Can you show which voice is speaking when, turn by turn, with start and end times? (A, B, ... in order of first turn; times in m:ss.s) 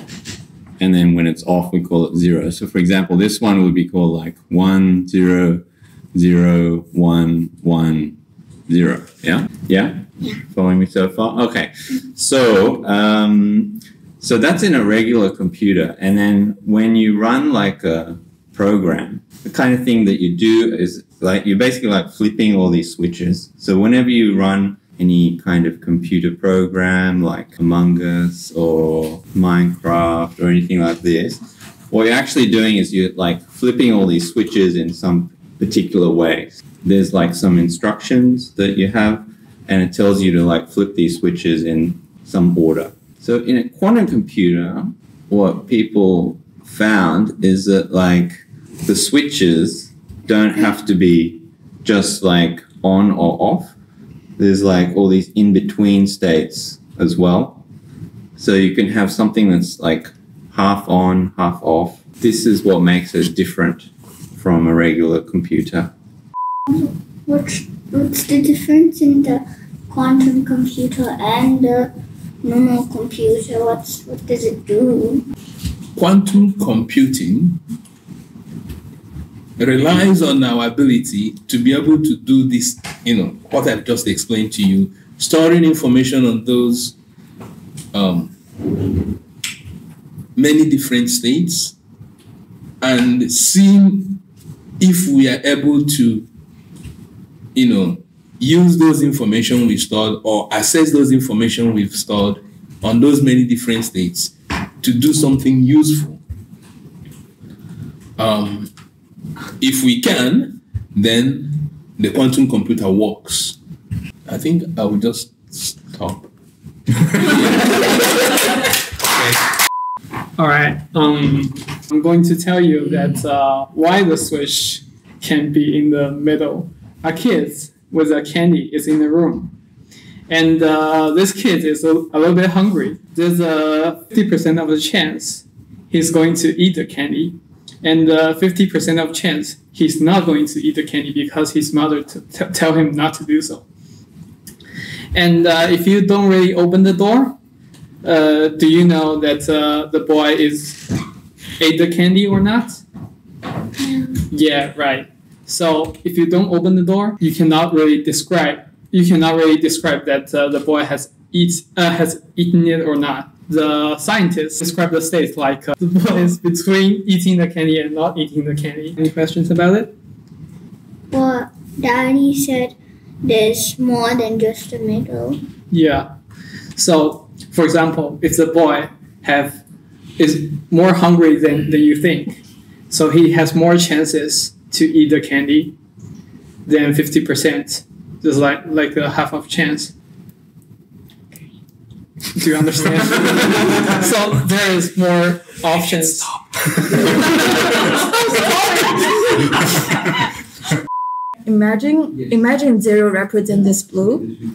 0:00.8-0:05.6 A
0:06.1-0:08.1 A
0:08.7-0:53.7 A
0:54.4-0:57.6 A
0:58.4-1:05.9 A
1:06.7-1:11.9 B
1:12.4-1:15.2 B
1:16.0-1:17.6 C
1:19.6-1:26.9 C
1:27.9-1:28.3 C
1:30.4-1:31.7 C
1:32.8-1:34.2 C
1:34.8-1:36.2 C
1:37.5-1:46.2 C
1:48.2-1:48.7 C
1:49.6-1:53.6 C
1:54.3-1:56.3 C
2:00.4-2:09.5 D
2:10.3-2:23.6 D
2:25.1-2:27.4 D
2:28.0-2:30.8 D
2:31.6-2:32.8 D
2:33.8-2:34.2 B
2:34.3-2:49.9 D
2:51.1-2:55.4 B
2:55.7-2:56.1 D
2:56.8-2:59.6 D
3:00.2-3:02.4 D
3:02.9-3:05.7 D
3:06.6-3:09.9 D
3:12.4-3:16.3 D
3:16.9-3:19.0 D
3:21.4-3:24.3 E